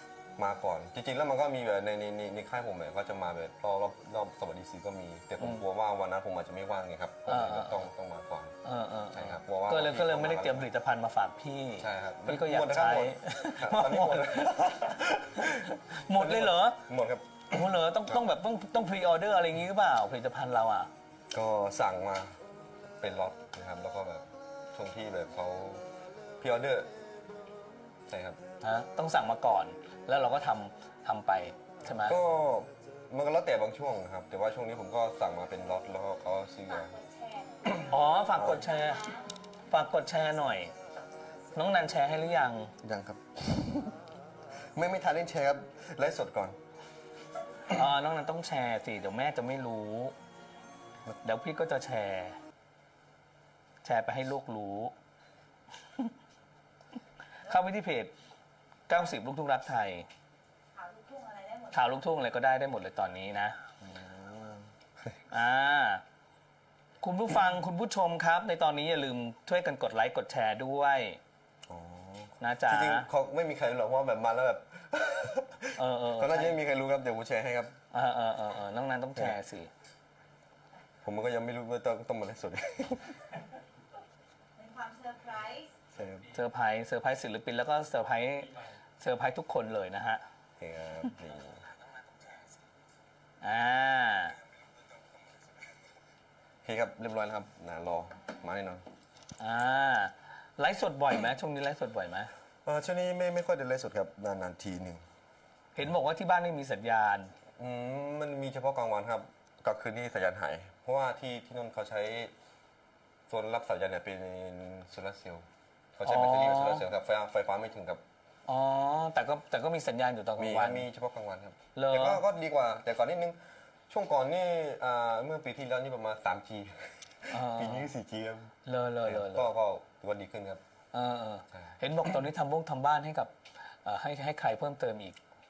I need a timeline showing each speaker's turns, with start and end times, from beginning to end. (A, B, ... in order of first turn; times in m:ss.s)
0:00.4-0:08.6 A
0:05.4-0:05.6 B
0:07.3-0:07.8 B
0:08.6-0:14.8 B
0:09.1-0:10.7 A
0:11.8-0:18.2 A
0:15.4-0:16.8 B
0:17.5-0:20.9 B
0:21.3-0:22.4 A
0:23.0-0:25.8 A
0:26.4-0:26.9 A
0:28.1-0:28.4 A
0:28.6-0:32.2 B
0:32.1-0:36.9 A
0:36.7-0:39.4 C
0:37.9-0:39.2 B
0:38.3-0:38.7 A
0:39.7-0:40.7 B
0:41.6-0:42.7 B
0:42.8-0:44.0 A
0:44.7-0:46.6 A
0:47.7-0:50.1 B
0:51.2-0:52.4 B
0:53.8-0:54.9 B
0:57.4-0:58.1 B
0:58.9-1:00.1 B
1:00.8-1:02.0 C
1:01.7-1:03.6 B
1:03.8-1:05.1 A
1:05.3-1:06.0 B
1:07.0-1:11.2 B
1:11.7-1:17.7 A
1:12.4-1:13.1 B
1:15.8-1:16.6 B
1:17.9-1:19.7 B
1:21.0-1:23.3 A
1:24.6-1:25.7 C
1:25.9-1:26.3 A
1:26.3-1:30.2 B
1:30.6-1:31.6 A
1:33.4-1:34.4 B
1:36.6-1:38.8 A
1:39.4-1:42.3 B
1:42.7-1:45.0 A
1:45.8-1:47.3 B
1:47.6-1:52.3 A
1:53.3-1:58.0 A
1:56.0-1:56.8 B
1:58.5-2:00.9 B
2:00.4-2:03.4 A
2:01.8-2:02.2 B
2:03.9-2:10.6 A
2:07.3-2:07.9 B
2:08.6-2:09.5 B
2:10.9-2:15.2 B